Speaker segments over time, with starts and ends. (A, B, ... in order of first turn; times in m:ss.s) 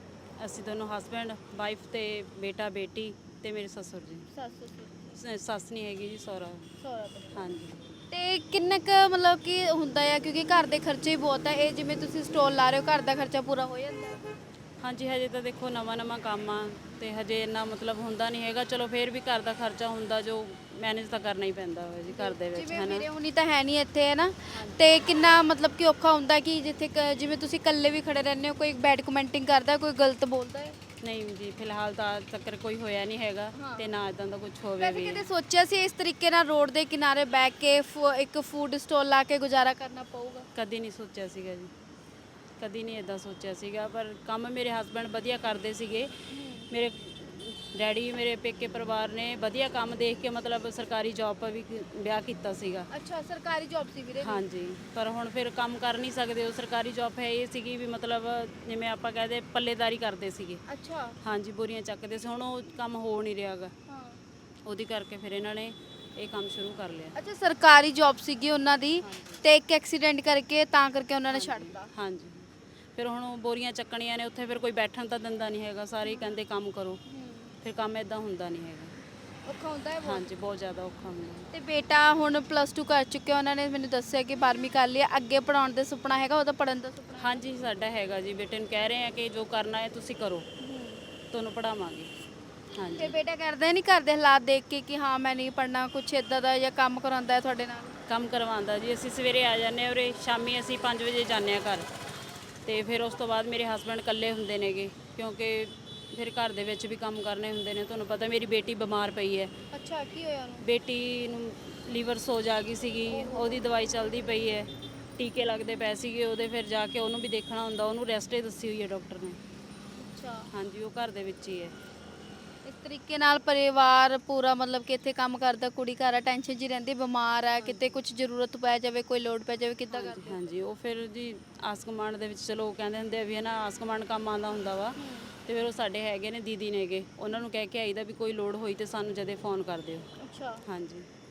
0:00.4-0:04.2 A
0:04.3-0:05.1 B
0:05.2-0:06.7 A
0:06.8-0:07.5 B
0:07.3-0:07.8 A
0:08.1-0:14.2 B
0:14.8-0:23.0 A
0:22.1-0:30.8 B
0:24.5-0:25.0 A
0:31.0-0:35.3 A
0:33.5-0:33.9 B
0:34.8-0:40.5 B
0:40.5-0:41.7 A
0:42.6-0:46.1 A
0:46.3-0:46.7 B
0:46.7-0:52.9 A
0:52.9-0:54.4 B
0:54.2-1:00.6 A
1:00.7-1:01.2 B
1:01.2-1:03.7 A
1:03.9-1:04.2 B
1:04.7-1:07.1 A
1:07.2-1:11.9 B
1:09.0-1:09.4 A
1:11.3-1:17.0 A
1:16.0-1:16.4 B
1:17.1-1:17.5 B
1:17.6-1:18.9 A
1:19.5-1:20.2 B
1:20.0-1:21.5 A
1:21.5-1:27.4 B
1:27.2-1:30.5 A
1:30.6-1:31.0 B
1:31.3-1:32.1 A
1:32.8-1:33.2 A
1:33.0-1:37.9 B
1:38.1-1:41.8 A
1:42.7-1:49.5 A
1:49.7-1:50.6 B
1:50.6-1:59.4 A
1:53.1-1:53.6 B
2:00.0-2:00.5 B
2:00.5-2:01.7 A
2:02.6-2:10.5 B
2:07.6-2:07.9 A
2:09.9-2:20.1 A
2:15.0-2:15.3 B
2:20.2-2:20.6 B
2:20.7-2:21.0 A